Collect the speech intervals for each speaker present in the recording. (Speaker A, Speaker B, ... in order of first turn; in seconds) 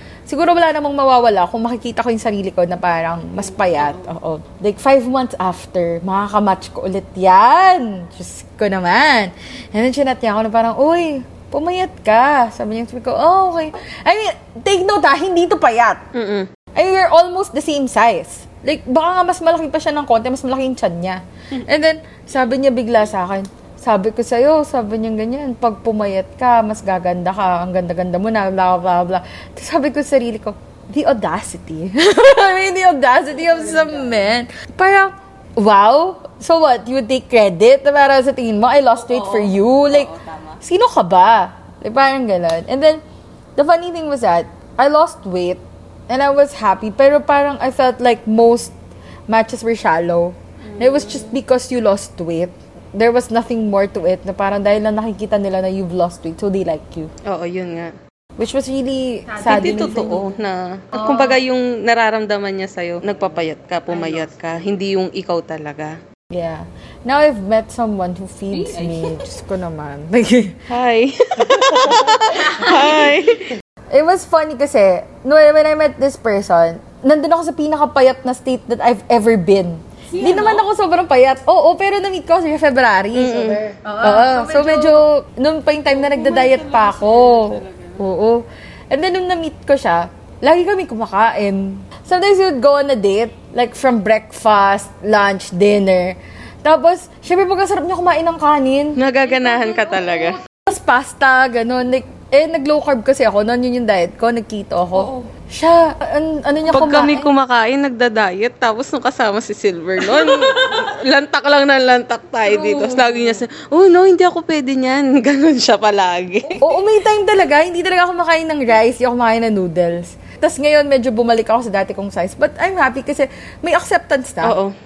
Speaker A: 0.3-16.0, 16.8-43.0, 43.6-48.8, 49.3-57.1, 58.4-60.2, 61.0-61.3, 66.3-70.6, 71.9-73.0, 73.9-107.3, 112.4-113.4, 116.5-124.6
Speaker B: 3.5-4.0, 16.1-16.5, 39.0-40.6, 50.7-51.4, 57.2-58.0, 59.4-66.0, 68.5-69.2, 70.7-73.5, 80.1-80.6, 83.2-85.0, 85.9-88.0, 99.0-100.4, 105.0-105.3, 106.7-116.7, 124.4-124.7